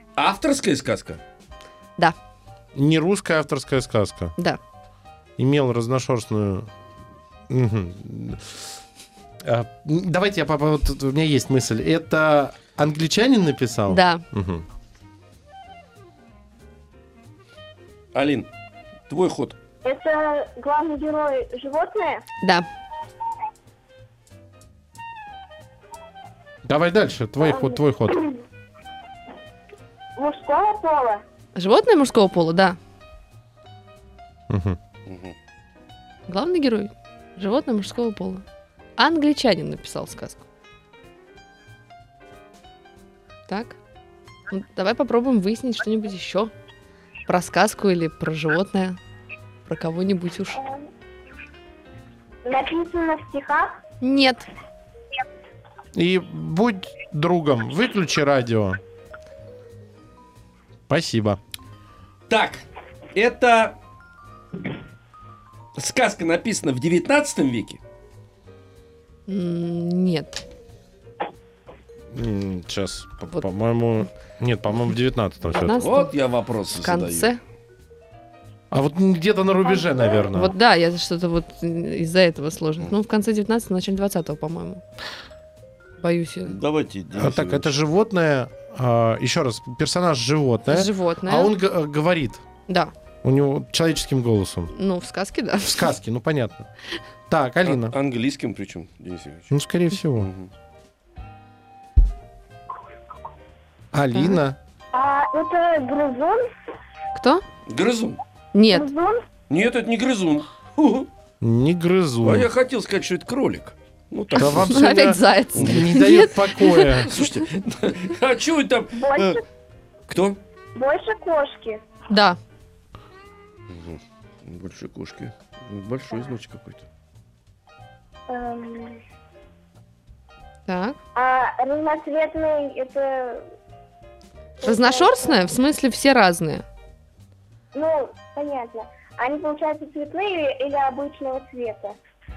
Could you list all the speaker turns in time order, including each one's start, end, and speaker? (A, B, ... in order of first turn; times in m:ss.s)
0:00.2-0:01.2 A
0:02.7-0:04.3 B
0:05.4-0:06.7 B
0:07.5-0:08.6 B
0:09.4-0:14.6 B
0:13.9-0:14.2 C
0:18.1-0:18.5 A
0:19.1-0:19.6 A
0:19.8-0:22.2 D
0:22.4-0:22.7 C
0:26.6-0:28.2 B
0:27.4-0:28.2 D
0:30.2-0:31.2 D
0:31.5-0:32.8 C
0:34.5-0:34.8 B
0:35.0-0:35.3 A
0:36.3-0:38.4 C
0:39.0-0:40.4 C
0:43.5-0:43.8 C
0:44.5-0:46.5 C
0:47.3-0:49.0 C
0:49.6-0:50.6 C
0:50.6-0:50.9 D
0:52.4-0:53.7 D
0:54.0-0:54.5 C
0:55.9-0:58.8 B
1:00.9-1:01.4 B
1:02.3-1:03.8 A
1:05.8-1:07.8 A
1:09.3-1:10.4 C
1:12.1-1:15.8 B
1:15.5-1:16.1 C
1:15.7-1:17.3 A
1:16.8-1:17.4 C
1:18.7-1:20.5 B
1:19.8-1:20.2 D
1:20.3-1:24.8 C
1:26.0-1:26.6 C
1:26.5-1:27.7 A
1:27.2-1:32.4 B
1:30.7-1:31.5 C
1:33.2-1:34.7 B
1:34.7-1:35.9 C
1:35.6-1:36.7 B
1:37.3-1:37.9 B
1:37.6-1:39.5 A
1:39.5-1:40.3 B
1:40.2-1:40.5 A
1:43.9-1:44.6 B
1:44.1-1:44.4 C
1:44.9-1:46.5 D
1:47.2-1:47.4 C
1:47.7-1:48.2 A
1:48.5-1:48.9 C
1:48.7-1:49.2 D
1:49.5-1:51.1 A
1:51.4-1:52.5 B
1:52.2-1:54.8 A
1:54.4-1:57.1 B
1:54.4-1:57.0 C
1:55.5-1:55.9 A
1:57.0-1:59.4 A
1:58.9-1:59.4 D
2:00.1-2:00.4 A
2:00.7-2:01.8 D
2:02.1-2:02.4 C
2:03.7-2:06.9 A
2:08.3-2:09.0 D
2:10.7-2:11.0 C
2:11.1-2:13.5 D
2:14.6-2:15.4 D
2:14.6-2:16.6 C
2:17.7-2:22.0 D